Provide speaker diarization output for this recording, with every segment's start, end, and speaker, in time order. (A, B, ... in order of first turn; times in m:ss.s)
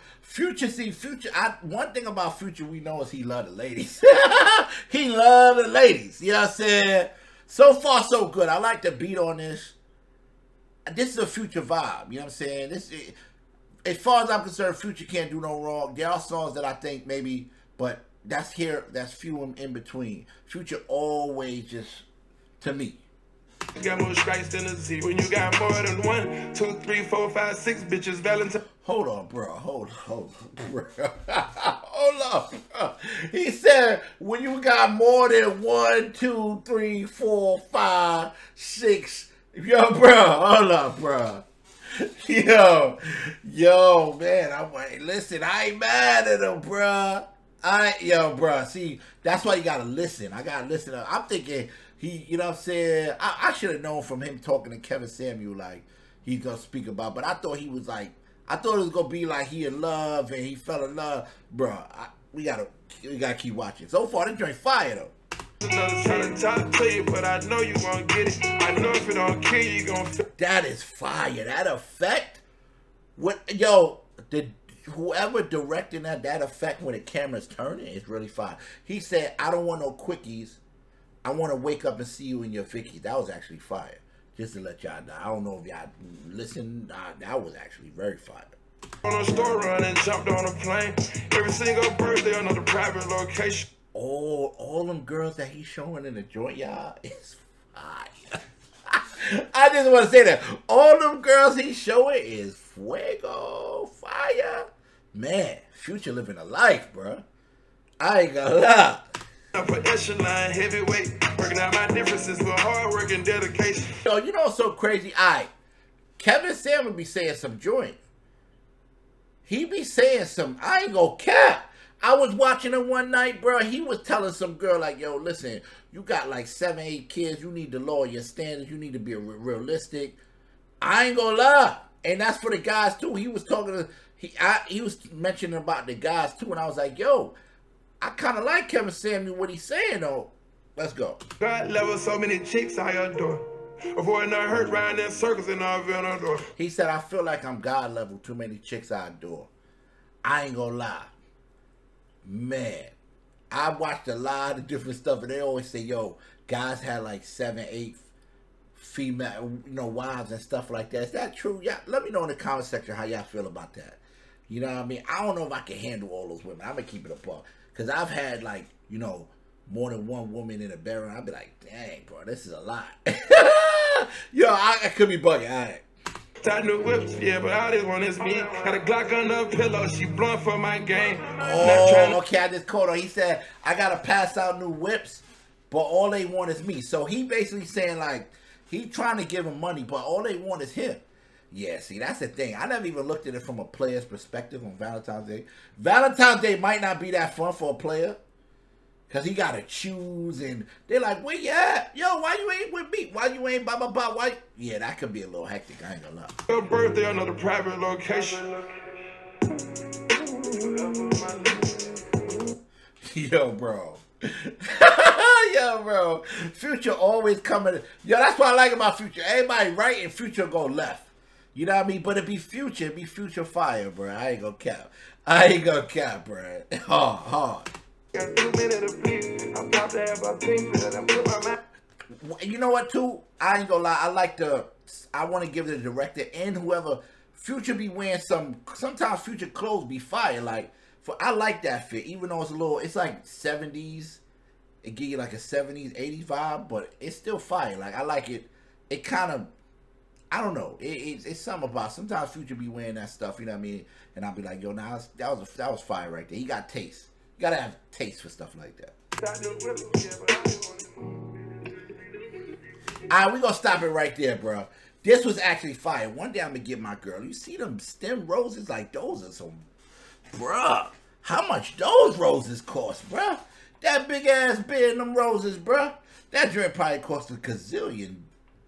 0:00.2-0:09.8 A
0:10.9-0:13.2 A
0:13.8-0:22.0 A
0:22.6-0:23.0 A
0:23.7-0:28.6 B
0:28.8-1:05.1 A
1:05.6-1:10.2 B
1:10.4-1:12.4 A
1:13.2-1:20.6 A
1:21.2-1:28.6 A
1:29.0-1:33.6 B
1:33.9-1:38.2 A
1:38.9-1:47.2 A
1:48.0-1:49.1 A
1:49.5-1:53.9 B
1:54.0-1:55.5 A
1:56.2-1:58.0 A
1:59.4-2:10.2 A
2:10.8-2:17.4 A
2:18.0-2:21.2 A
2:21.4-2:26.5 B
2:26.6-2:29.5 A
2:30.2-2:31.1 A
2:32.2-2:32.9 A
2:33.5-2:38.1 A
2:38.7-2:55.8 A
2:56.4-3:02.2 B
3:01.4-3:18.2 A
3:19.1-3:26.4 A
3:26.5-3:28.9 B
3:30.2-3:32.2 B
3:33.0-3:47.7 A
3:48.1-3:51.6 B
3:52.2-4:04.2 A
4:04.8-4:09.5 A
4:10.3-4:18.9 A
4:19.2-4:21.7 B
4:23.1-4:29.7 A
4:30.3-4:38.3 A